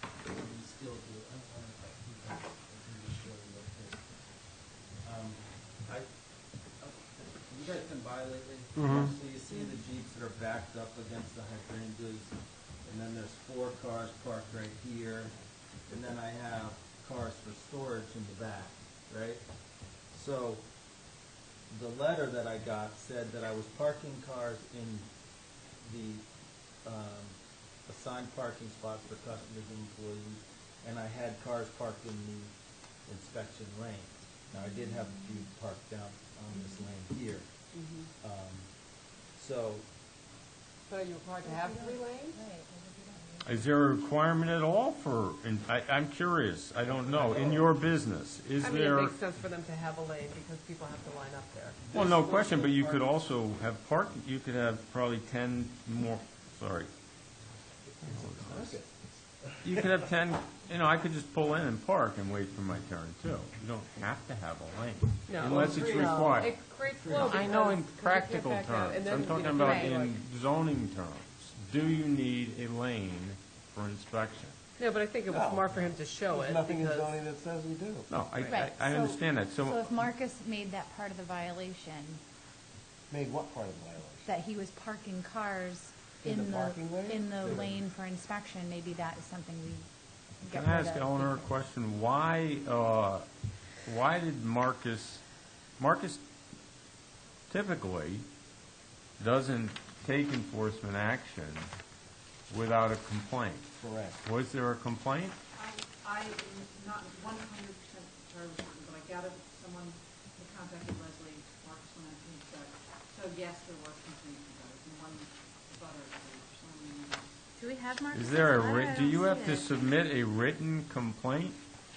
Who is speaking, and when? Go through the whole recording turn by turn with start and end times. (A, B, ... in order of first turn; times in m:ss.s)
0:00.2-0:04.2 A
0:05.0-0:06.1 A
0:06.8-0:12.3 A
0:08.8-0:09.1 B
0:12.8-0:15.3 A
0:15.9-0:19.4 A
0:20.1-0:20.6 A
0:21.7-0:25.1 A
0:25.8-0:26.2 A
0:26.8-0:32.5 A
0:33.0-0:37.5 A
0:34.5-0:35.2 C
0:37.7-0:38.1 D
0:38.2-0:38.7 A
0:39.3-0:39.8 A
0:40.9-0:42.4 D
0:41.4-0:43.6 C
0:43.4-0:49.1 E
0:46.8-0:47.7 A
0:48.6-0:51.9 D
0:51.8-0:53.1 A
0:51.9-0:56.9 E
0:58.0-0:58.8 E
0:58.0-1:00.0 B
0:59.6-1:06.5 E
1:05.3-1:10.2 D
1:05.4-1:07.7 A
1:07.1-1:14.6 E
1:09.5-1:09.9 C
1:14.8-1:17.1 D
1:15.3-1:18.1 B
1:18.1-1:20.0 E
1:18.4-1:22.2 C
1:23.1-1:24.3 B
1:24.2-1:29.9 C
1:26.2-1:27.7 B
1:30.4-1:31.5 C
1:30.5-1:33.3 E
1:33.8-1:35.2 E
1:35.8-1:36.2 E
1:37.5-1:38.2 E
1:39.2-1:41.7 E
1:42.5-1:45.4 E
1:43.8-1:44.2 B
1:45.6-1:57.3 F
1:57.6-1:59.8 C
1:58.1-2:01.6 E